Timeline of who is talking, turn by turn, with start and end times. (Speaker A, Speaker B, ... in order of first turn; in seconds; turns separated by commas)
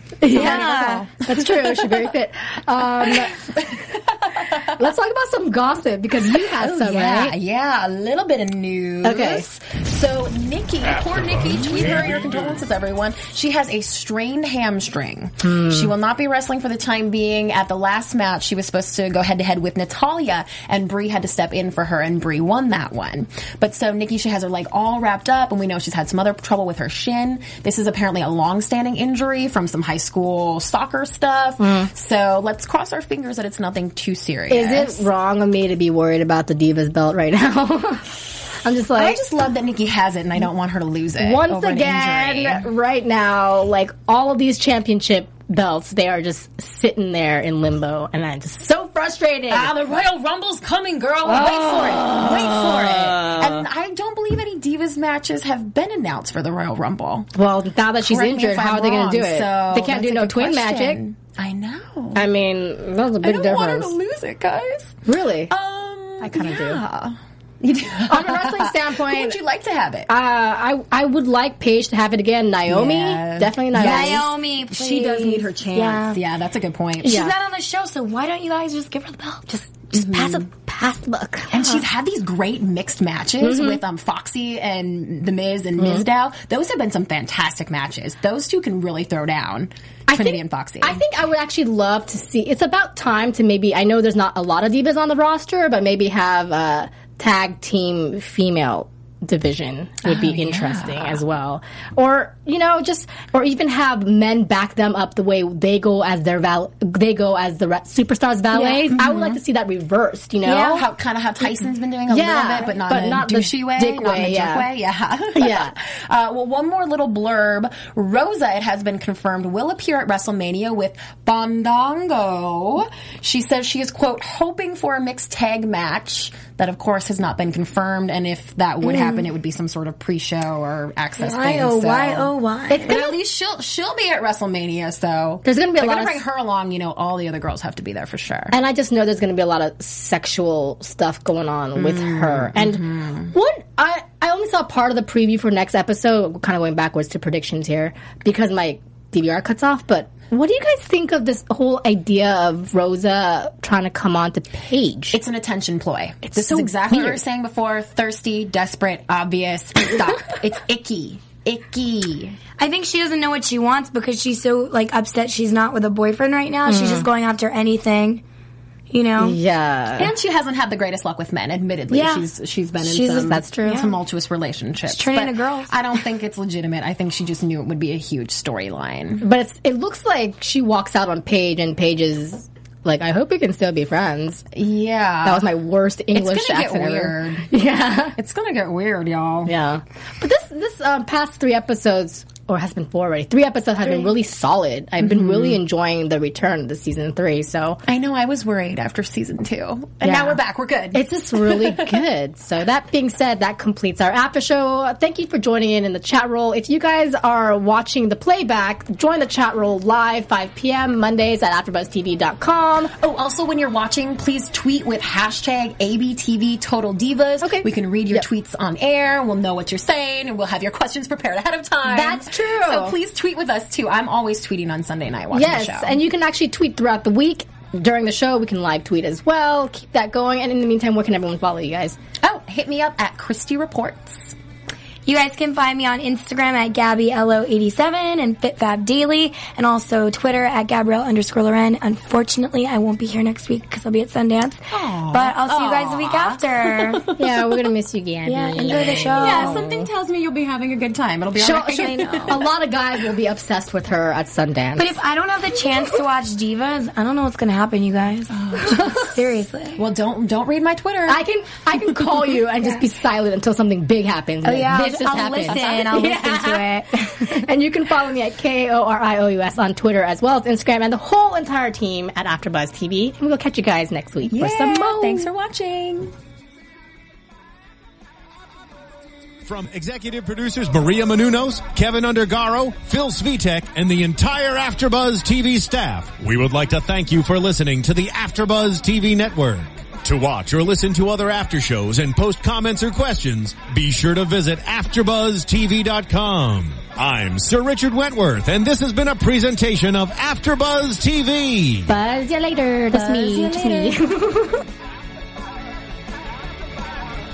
Speaker A: 0.2-3.4, Speaker B: 0.3-1.1, Speaker C: 0.3-0.8, Speaker C: 1.3-2.1, Speaker C: 3.0-4.8, Speaker A: 4.8-7.3, Speaker C: 6.3-35.1, Speaker A: 9.0-9.4, Speaker A: 15.4-15.9, Speaker A: 31.6-31.9, Speaker A: 34.5-39.2, Speaker C: 38.9-42.7, Speaker A: 41.2-49.7, Speaker C: 49.5-57.3, Speaker A: 51.2-53.7, Speaker A: 57.4-61.0, Speaker C: 58.0-62.3, Speaker A: 62.1-64.0, Speaker C: 63.2-70.1, Speaker A: 65.1-65.5, Speaker A: 66.2-66.8, Speaker A: 68.1-69.4, Speaker A: 70.1-74.3, Speaker C: 72.7-77.3, Speaker B: 73.7-76.2, Speaker B: 77.0-79.7, Speaker A: 77.1-77.3, Speaker A: 79.7-81.6, Speaker C: 79.9-80.5, Speaker C: 81.5-91.0, Speaker A: 83.4-83.8, Speaker A: 85.8-86.1, Speaker A: 90.1-110.9, Speaker C: 100.0-101.2, Speaker B: 108.6-108.9, Speaker C: 108.9-109.4, Speaker C: 110.4-138.6, Speaker A: 112.1-114.7, Speaker A: 115.4-115.7, Speaker B: 128.8-129.2, Speaker B: 131.2-133.0, Speaker A: 132.7-133.2, Speaker A: 135.4-136.2, Speaker A: 138.5-155.2, Speaker C: 141.8-143.3, Speaker C: 155.1-162.4, Speaker A: 156.3-157.2, Speaker B: 162.6-168.2, Speaker A: 166.7-167.1, Speaker B: 168.9-169.4, Speaker A: 169.2-170.1, Speaker C: 170.0-179.3, Speaker B: 171.9-172.3, Speaker B: 172.8-173.9, Speaker A: 173.1-173.9, Speaker B: 174.9-175.7, Speaker A: 179.2-184.5, Speaker C: 184.5-185.5, Speaker A: 185.2-188.2, Speaker C: 186.1-187.5, Speaker C: 188.1-189.5, Speaker A: 189.5-197.8, Speaker C: 195.0-195.6, Speaker C: 197.9-202.1, Speaker A: 200.0-200.4, Speaker A: 200.9-212.9, Speaker C: 213.0-226.0, Speaker A: 217.4-218.3, Speaker A: 221.9-223.0, Speaker A: 225.3-232.0, Speaker C: 232.2-234.3, Speaker B: 235.1-247.1, Speaker C: 244.7-247.7, Speaker A: 247.2-249.9, Speaker B: 248.2-249.6, Speaker C: 248.7-252.5, Speaker A: 251.4-255.0, Speaker B: 254.8-259.8, Speaker C: 258.3-259.2, Speaker C: 259.8-261.2, Speaker A: 261.1-275.3, Speaker C: 261.8-262.4, Speaker B: 264.4-267.5, Speaker C: 264.7-266.4, Speaker C: 274.2-276.1, Speaker D: 279.4-301.9, Speaker A: 301.9-304.6, Speaker B: 302.9-304.0, Speaker C: 303.0-303.8